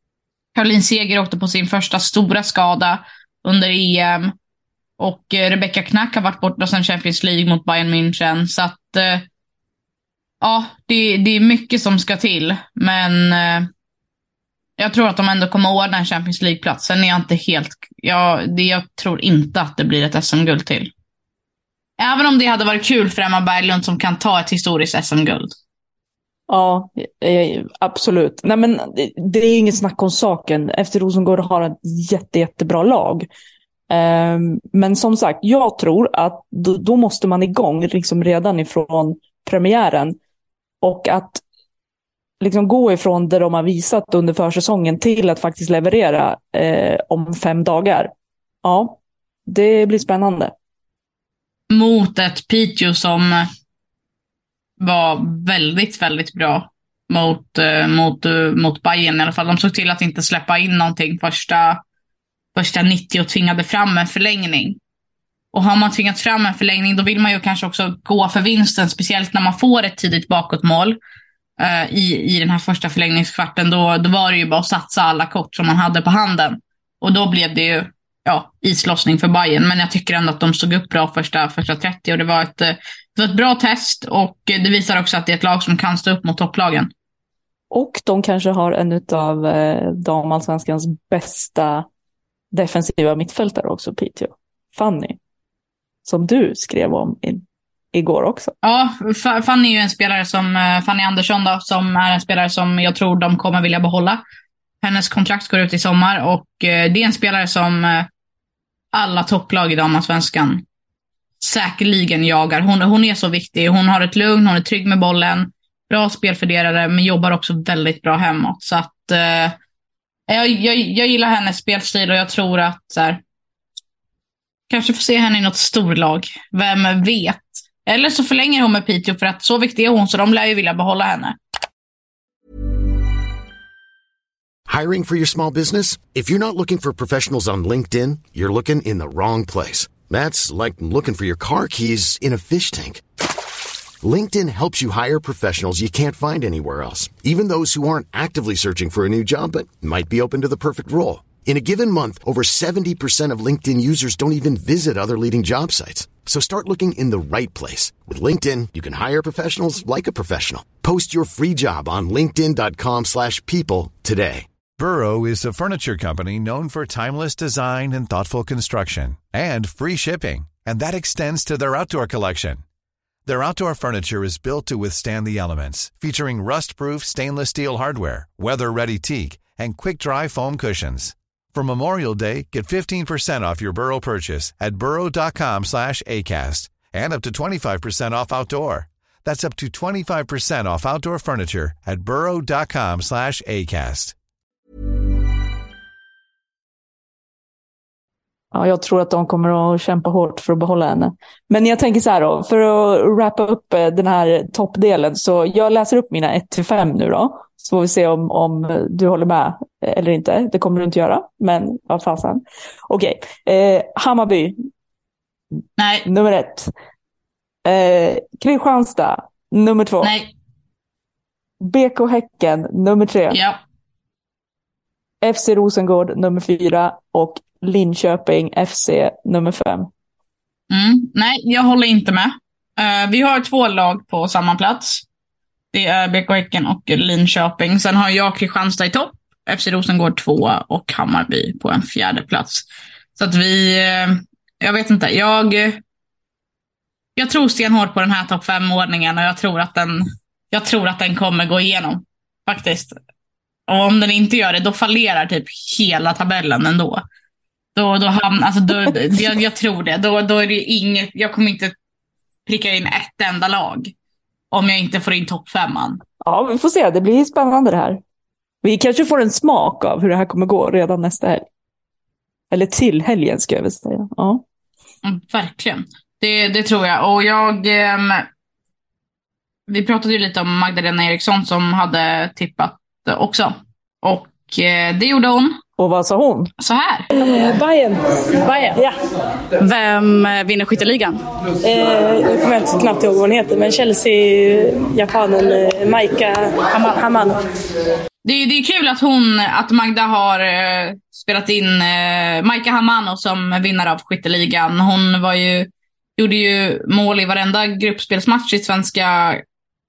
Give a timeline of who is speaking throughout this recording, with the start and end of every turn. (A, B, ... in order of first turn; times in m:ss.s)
0:00.5-0:04.3 A
0:05.0-0:09.2 A
0:10.4-0:13.7 A
0:14.8-0:20.9 A
0:22.0-0:25.5 A
0:26.5-0:33.3 B
0:33.9-0:40.2 B
0:40.8-0:41.4 B
0:42.4-0:48.1 B
0:48.6-0:50.5 B
0:51.7-0:53.4 A
0:54.8-1:01.8 A
1:02.5-1:04.8 A
1:05.5-1:11.0 A
1:11.6-1:26.9 A
1:27.7-1:31.8 B
1:32.5-1:35.2 B
1:36.0-1:38.5 B
1:38.6-1:44.2 A
1:44.8-1:48.1 A
1:48.9-1:50.6 A
1:51.4-1:59.6 A
2:00.3-2:03.2 A
2:04.7-2:11.4 A
2:14.7-2:23.0 C
2:24.0-2:44.5 C
2:44.8-2:52.6 D
2:53.2-3:14.1 D
3:18.5-3:34.5 B
3:35.8-3:36.1 A
3:36.0-3:36.7 B
3:37.6-3:40.1 B
3:40.0-3:40.3 A
3:41.6-3:43.4 B
3:43.3-3:43.6 A
3:45.2-3:49.9 B
3:50.7-3:55.0 A
3:55.7-4:02.6 A
4:03.2-4:05.8 A
4:07.2-4:13.0 A
4:13.7-4:17.0 A
4:17.7-4:21.7 A
4:22.4-4:23.9 A
4:24.5-4:26.0 A
4:26.2-4:28.0 B
4:28.6-4:31.4 B
4:32.5-4:34.4 B
4:35.0-4:38.2 A
4:39.7-4:45.6 A
4:45.8-4:46.5 B
4:46.6-4:47.1 A
4:47.1-4:48.9 E
4:49.6-4:51.2 A
4:51.6-4:57.4 E
4:58.2-5:09.4 A